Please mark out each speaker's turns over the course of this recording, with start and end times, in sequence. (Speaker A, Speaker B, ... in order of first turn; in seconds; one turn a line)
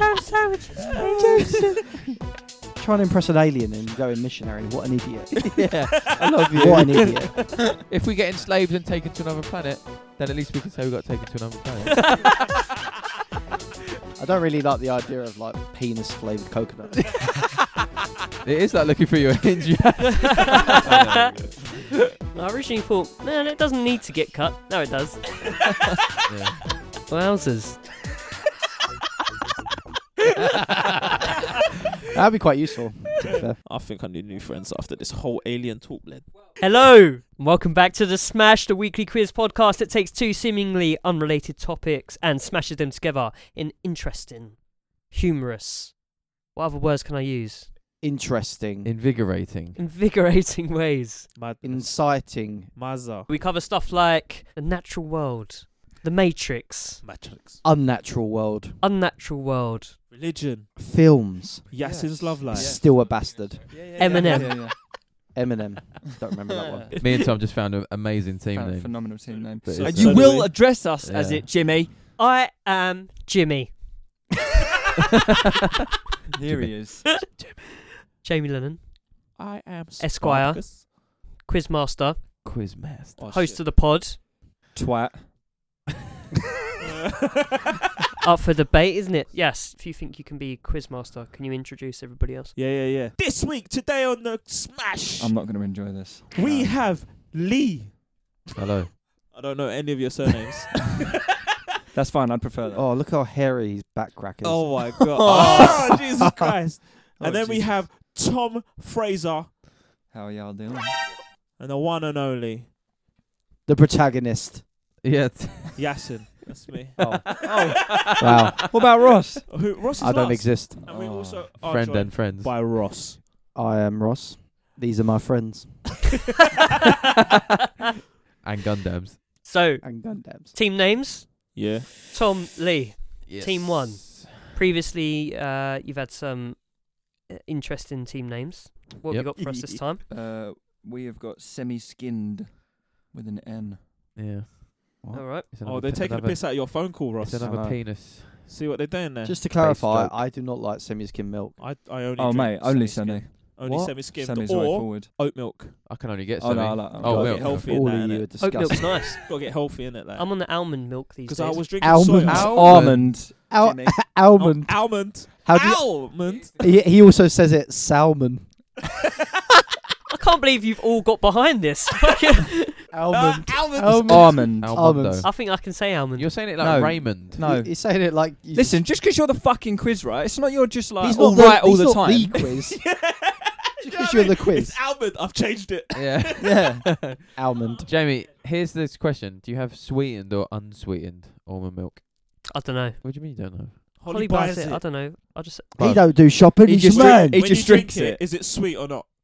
Speaker A: 1.0-1.5
Speaker B: 1.2-1.7
Speaker C: 2.8-7.7
Speaker B: 5.5-12.2
Speaker C: 14.2-17.4
Speaker B: 18.4-22.1
Speaker A: 20.2-21.6
Speaker A: 22.3-25.6
Speaker B: 26.3-26.6
Speaker A: 27.1-27.9
Speaker C: 32.1-33.6
Speaker D: 33.6-36.4
Speaker A: 36.6-47.7
Speaker C: 48.0-49.0
Speaker B: 48.8-49.8
Speaker A: 49.8-51.4
Speaker D: 51.4-53.3
Speaker C: 51.6-52.8
Speaker A: 53.3-57.0
Speaker D: 57.0-57.6
Speaker C: 57.6-58.8
Speaker A: 58.8-60.0
Speaker D: 60.1-60.8
Speaker C: 60.8-64.3
Speaker D: 61.7-62.9
Speaker E: 61.8-62.9
Speaker E: 63.7-64.8
Speaker A: 64.0-64.8
Speaker D: 64.1-64.4
Speaker C: 65.3-67.0
Speaker E: 66.7-66.9
Speaker B: 67.0-71.5
Speaker E: 68.5-71.9
Speaker D: 69.6-70.5
Speaker A: 72.2-74.2
Speaker E: 76.3-77.2
Speaker B: 76.5-77.6
Speaker A: 78.2-79.4
Speaker D: 79.4-80.9
Speaker A: 80.0-82.7
Speaker B: 82.4-83.3
Speaker D: 83.2-83.6
Speaker A: 83.3-84.2
Speaker E: 84.7-85.3
Speaker D: 86.8-87.6
Speaker A: 88.2-92.6
Speaker D: 92.5-95.3
Speaker E: 95.2-96.8
Speaker D: 96.3-97.9
Speaker B: 98.5-98.9
Speaker D: 99.3-100.9
Speaker E: 101.9-102.9
Speaker C: 102.7-106.0
Speaker D: 104.4-109.5
Speaker E: 105.2-105.9
Speaker C: 107.2-107.9
Speaker E: 110.1-111.1
Speaker D: 111.6-112.7
Speaker C: 113.7-114.7
Speaker B: 115.0-116.1
Speaker D: 115.8-117.6
Speaker C: 117.0-118.6
Speaker E: 117.4-117.8
Speaker B: 117.7-118.9
Speaker E: 118.7-119.6
Speaker D: 119.5-123.2
Speaker C: 120.0-120.8
Speaker E: 120.8-121.5
Speaker B: 121.6-122.6
Speaker C: 123.5-126.0
Speaker B: 128.4-129.4
Speaker A: 129.4-140.0
Speaker C: 129.8-130.5
Speaker D: 131.6-131.9
Speaker B: 133.2-134.5
Speaker D: 139.3-139.8
Speaker E: 140.0-143.8
Speaker B: 144.2-148.5
Speaker A: 145.1-145.5
Speaker D: 145.6-147.5
Speaker C: 147.4-147.9
Speaker D: 148.5-149.5
Speaker C: 149.2-151.6
Speaker B: 149.5-150.2
Speaker D: 151.6-155.8
Speaker E: 152.1-155.2
Speaker B: 155.8-157.7
Speaker E: 156.4-157.5
Speaker C: 157.0-159.2
Speaker D: 157.0-160.5
Speaker A: 158.4-159.6
Speaker A: 160.2-162.1
Speaker D: 161.3-162.6
Speaker C: 161.8-168.8
Speaker E: 162.3-164.1
Speaker B: 162.5-163.2
Speaker D: 164.3-166.6
Speaker A: 170.1-172.8
Speaker C: 172.9-175.3
Speaker D: 173.1-174.5
Speaker E: 173.9-174.8
Speaker B: 174.6-177.4
Speaker A: 175.2-176.3
Speaker E: 176.6-182.4
Speaker C: 177.3-178.8
Speaker C: 181.0-183.0
Speaker D: 182.5-186.7
Speaker C: 183.8-184.8
Speaker B: 185.9-193.9
Speaker E: 186.4-186.9
Speaker C: 187.3-187.9
Speaker A: 192.5-193.0
Speaker A: 193.8-195.7
Speaker D: 194.0-194.9
Speaker B: 195.8-196.4
Speaker C: 195.8-197.6
Speaker E: 196.6-198.2
Speaker D: 196.9-199.1